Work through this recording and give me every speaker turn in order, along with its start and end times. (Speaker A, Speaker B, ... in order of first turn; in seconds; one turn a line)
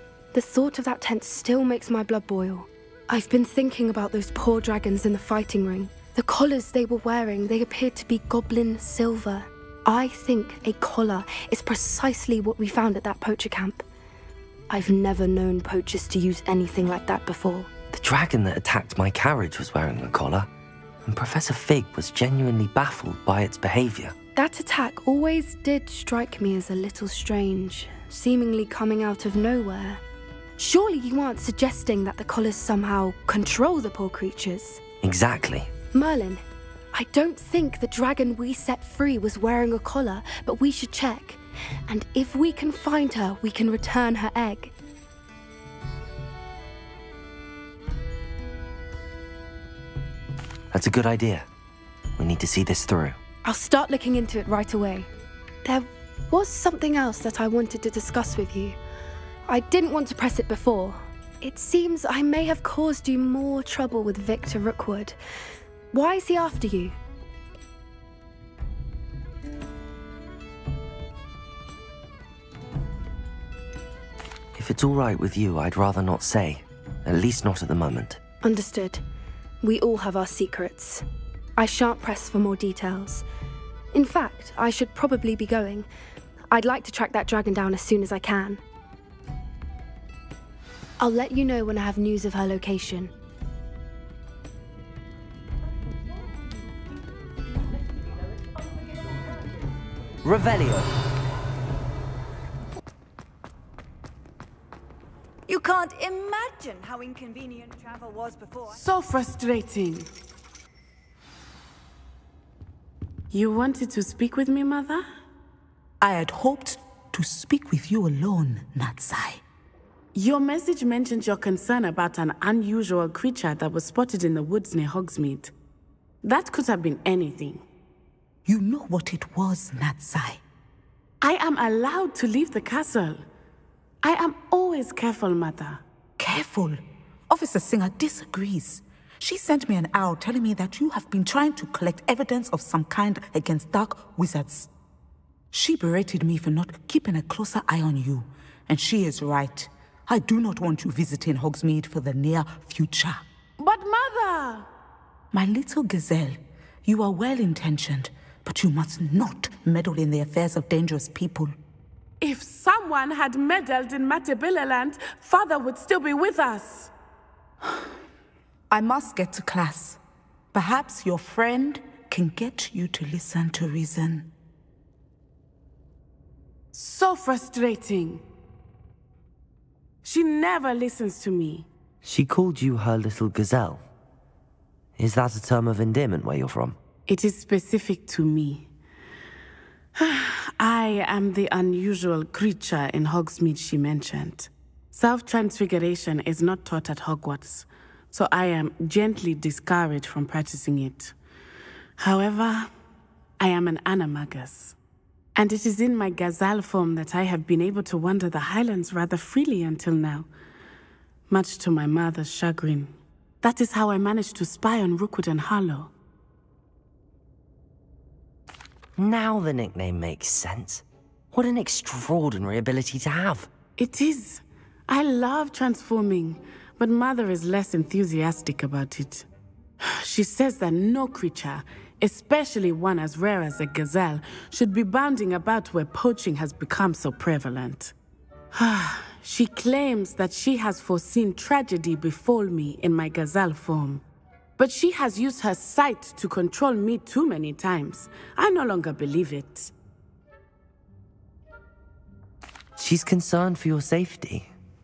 Speaker A: 0.3-13.8
Speaker A: 14.7-17.7
Speaker B: 17.9-20.5
Speaker B: 21.0-24.1
Speaker A: 24.4-30.0
Speaker A: 30.6-34.8
Speaker B: 35.0-35.7
Speaker A: 35.9-44.7
Speaker B: 50.7-51.5
Speaker B: 52.2-53.2
Speaker A: 53.4-55.1
Speaker A: 55.6-58.8
Speaker A: 59.5-65.2
Speaker A: 65.9-67.0
Speaker B: 74.5-78.2
Speaker A: 78.4-79.0
Speaker A: 79.6-81.0
Speaker A: 81.6-83.2
Speaker A: 83.9-85.9
Speaker A: 86.5-88.6
Speaker A: 91.0-93.1
Speaker B: 100.2-100.9
Speaker C: 105.5-108.7
Speaker D: 108.7-110.1
Speaker D: 113.3-115.0
Speaker E: 116.0-119.4
Speaker D: 120.1-125.5
Speaker D: 126.2-127.6
Speaker E: 128.4-130.4
Speaker D: 131.2-133.2
Speaker D: 134.0-135.8
Speaker E: 136.2-144.7
Speaker E: 145.5-153.2
Speaker D: 153.6-154.7
Speaker E: 155.3-161.5
Speaker D: 162.2-166.9
Speaker E: 168.7-170.0
Speaker E: 170.5-174.3
Speaker D: 176.7-178.2
Speaker D: 180.0-181.7
Speaker B: 182.0-183.8
Speaker B: 185.0-186.8
Speaker D: 187.1-188.7
Speaker D: 190.0-201.1
Speaker D: 202.0-202.7
Speaker D: 203.4-204.8
Speaker D: 205.3-210.3
Speaker D: 211.3-215.9
Speaker B: 219.0-223.5
Speaker D: 223.8-229.2
Speaker D: 229.8-237.9
Speaker D: 238.5-244.0
Speaker D: 244.6-249.7
Speaker B: 252.8-254.5